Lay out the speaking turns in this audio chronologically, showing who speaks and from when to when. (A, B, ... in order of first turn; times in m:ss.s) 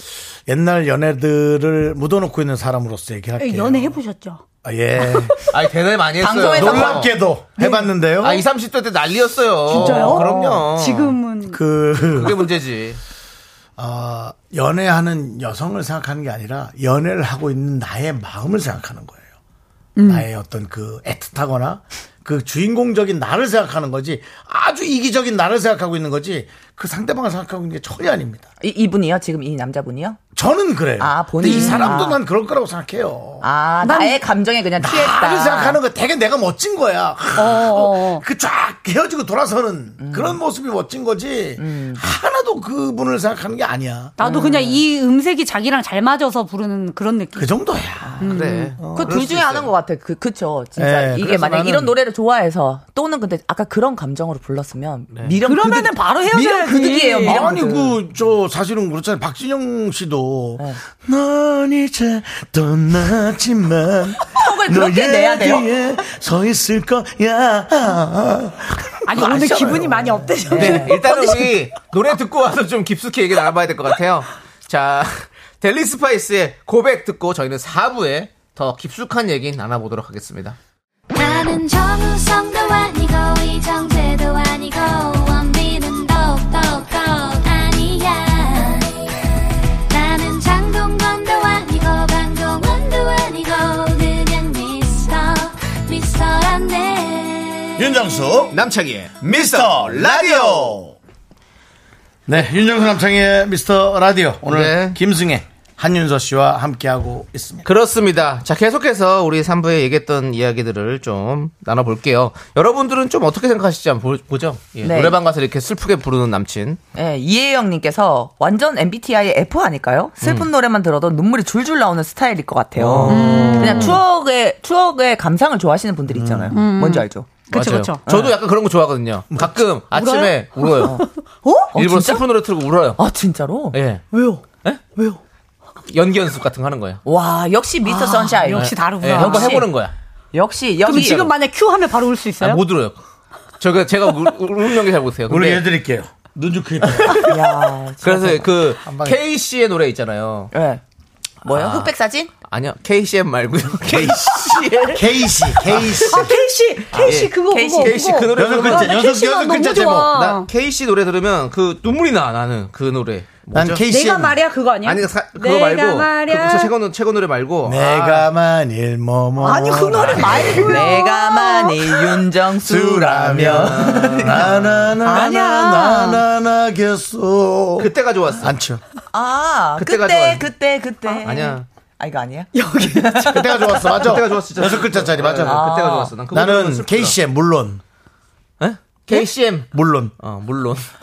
0:00.5-0:04.0 A
0:03.4-0:04.4 B
0:04.6-0:05.4 A
0:05.5-0:07.1 C
0:06.2-0:07.1 D
0:06.5-0:08.4 A
0:07.6-0:07.9 B
0:08.2-0:11.2 C
0:09.7-0:11.6 B
0:09.9-0:10.1 A
0:11.5-0:12.5 A
0:12.1-0:13.0 C
0:13.8-0:19.2 A
0:20.0-0:20.3 B
0:20.0-0:28.5 A
0:28.6-0:30.2 D
0:30.4-0:33.5 A
0:31.0-0:32.2 D
0:31.4-0:32.0 B
0:33.4-0:35.8 D
0:33.8-0:34.2 B
0:34.8-0:44.2 A
0:37.4-0:38.2 B
0:40.0-0:40.4 D
0:41.6-0:42.0 D
0:44.2-0:47.5 B
0:44.2-0:44.8 D
0:47.4-0:48.2 A
0:48.2-0:48.8 B
0:48.2-0:49.7 C
0:48.8-0:49.2 A
0:48.8-0:58.0 D
0:50.8-0:52.0 A
0:55.1-0:55.4 C
0:55.4-0:57.5 B
0:57.2-1:10.3 A
1:04.3-1:05.7 D
1:09.1-1:11.6 B
1:09.2-1:09.9 D
1:10.5-1:10.9 D
1:10.5-1:20.6 C
1:21.2-1:28.8 E
1:29.9-1:37.6 E
1:37.8-1:38.6 A
1:38.5-1:40.8 C
1:39.2-1:41.0 A
1:42.3-1:47.6 A
1:44.4-1:45.0 C
1:47.6-1:56.8 C
1:54.8-1:55.2 D
1:56.9-2:07.4 D
2:00.2-2:00.5 C
2:02.8-2:04.0 C
2:03.1-2:04.0 B
2:06.1-2:06.5 A
2:06.5-2:08.0 B
2:07.5-2:11.0 C
2:09.3-2:09.6 A
2:09.9-2:11.8 B
2:11.7-2:13.0 C
2:11.8-2:12.3 D
2:13.0-2:13.8 D
2:13.7-2:14.0 C
2:14.1-2:15.2 B
2:15.9-2:17.0 C
2:17.0-2:19.7 D
2:17.8-2:19.7 B
2:18.5-2:19.9 C
2:20.3-2:21.3 D
2:20.8-2:22.6 B
2:20.9-2:21.3 C
2:22.4-2:23.0 C
2:23.6-2:25.6 C
2:25.3-2:27.2 A
2:27.0-2:27.3 C
2:27.3-2:28.5 D
2:28.0-2:30.5 C
2:28.8-2:29.2 A
2:30.5-2:30.8 D
2:31.4-2:32.3 D
2:31.5-2:31.9 C
2:32.5-2:35.0 C
2:33.9-2:34.3 A
2:34.9-2:36.3 A
2:36.0-2:40.5 B
2:37.0-2:39.0 C
2:37.4-2:37.9 D
2:38.3-2:40.2 A
2:40.0-2:43.8 C
2:43.5-2:44.4 A
2:43.8-2:46.7 B
2:44.8-2:48.3 C
2:47.6-2:50.7 A
2:49.4-2:52.2 B
2:50.0-2:50.2 C
2:50.6-2:54.5 D
2:52.6-2:58.8 A
2:53.3-2:54.9 C
2:55.0-2:56.2 B
2:57.8-2:58.5 C
2:59.1-3:03.3 D
2:59.8-3:00.5 C
3:01.2-3:01.6 C
3:02.5-3:03.8 B
3:03.2-3:05.6 A
3:04.0-3:07.2 C
3:05.4-3:06.2 D
3:06.3-3:07.8 A
3:08.6-3:09.7 C
3:09.7-3:10.1 A
3:10.2-3:10.8 C